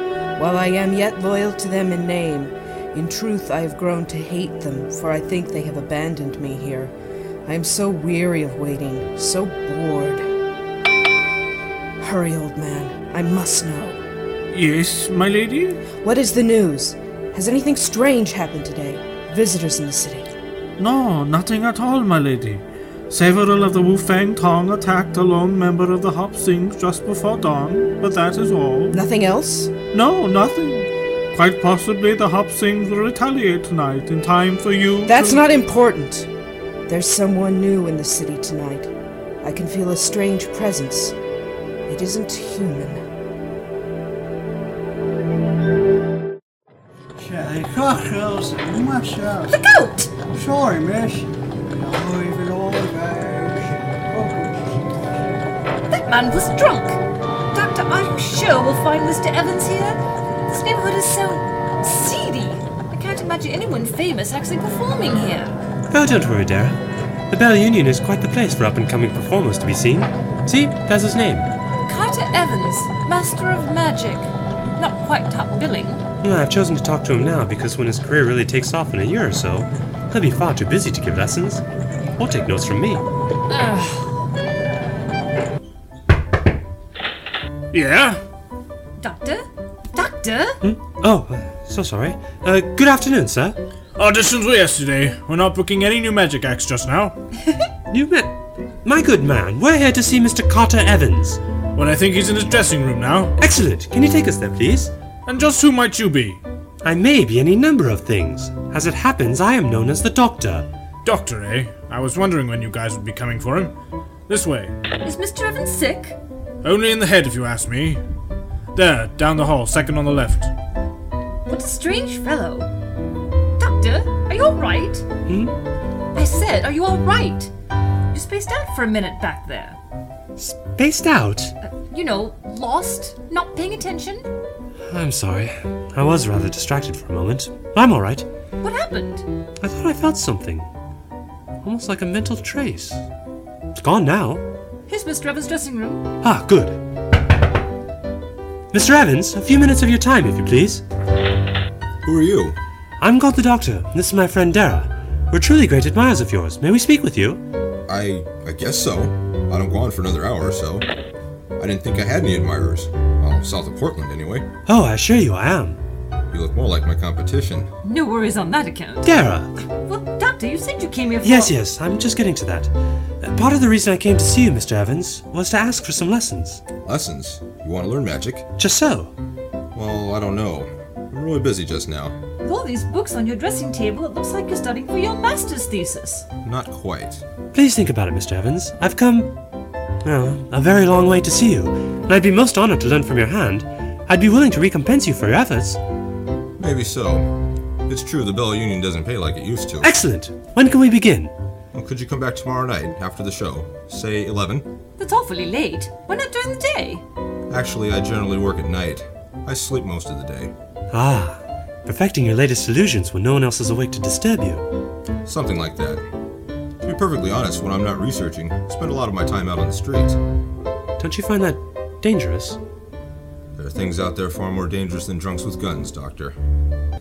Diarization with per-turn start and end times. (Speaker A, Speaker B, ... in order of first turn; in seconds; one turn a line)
Speaker A: 0.4-6.9
Speaker A: 7.5-10.2
Speaker A: 12.0-14.0
Speaker B: 14.5-15.8
Speaker A: 15.9-20.3
Speaker B: 20.8-29.0
Speaker A: 28.9-29.7
Speaker B: 29.9-35.4
Speaker A: 35.0-36.3
Speaker A: 36.9-38.9
Speaker A: 39.4-41.2
Speaker A: 41.9-43.0
Speaker C: 47.2-49.5
Speaker D: 49.5-50.1
Speaker C: 50.3-54.8
Speaker D: 55.9-57.0
Speaker D: 57.5-65.6
Speaker E: 65.9-66.8
Speaker E: 67.3-71.5
Speaker D: 71.9-76.0
Speaker E: 76.2-81.6
Speaker E: 82.2-83.0
Speaker D: 83.5-84.1
Speaker B: 87.7-88.2
Speaker D: 89.0-90.6
Speaker E: 90.6-93.6
Speaker B: 94.0-97.2
Speaker E: 97.9-101.4
Speaker B: 101.8-103.3
Speaker E: 103.4-104.9
Speaker B: 105.3-106.4
Speaker E: 106.8-110.7
Speaker B: 111.0-113.8
Speaker B: 114.3-114.7
Speaker D: 115.0-116.2
Speaker B: 116.6-118.0
Speaker B: 118.7-120.5
Speaker D: 121.5-122.7
Speaker D: 123.6-125.0
Speaker E: 125.3-125.6
Speaker D: 126.1-127.5
Speaker D: 128.1-129.8
Speaker E: 130.4-131.5
Speaker D: 131.6-134.3
Speaker E: 134.9-138.3
Speaker D: 138.6-139.3
Speaker E: 139.6-140.7
Speaker E: 141.6-143.0
Speaker E: 143.8-144.4
Speaker D: 144.9-146.1
Speaker E: 146.2-146.8
Speaker E: 148.7-150.8
Speaker F: 152.0-152.6
Speaker E: 153.0-157.4
Speaker F: 157.9-160.9
Speaker F: 161.6-164.5
Speaker E: 164.7-165.8
Speaker F: 166.3-167.7
Speaker D: 167.8-169.2
Speaker E: 169.1-169.5
Speaker D: 169.7-171.6
Speaker E: 171.2-176.6
Speaker F: 176.8-178.5
Speaker E: 178.6-179.1
Speaker F: 179.7-182.2
Speaker D: 182.4-186.3
Speaker F: 186.4-187.2
Speaker E: 187.5-189.3
Speaker E: 190.0-195.8
Speaker F: 196.6-197.3
Speaker F: 197.9-199.9
Speaker E: 199.8-201.3
Speaker F: 201.7-204.7
Speaker D: 205.0-207.0
Speaker F: 207.5-210.5
Speaker E: 210.9-214.7
Speaker F: 215.2-216.1
Speaker F: 216.8-220.2
Speaker E: 221.0-222.6
Speaker F: 223.6-226.4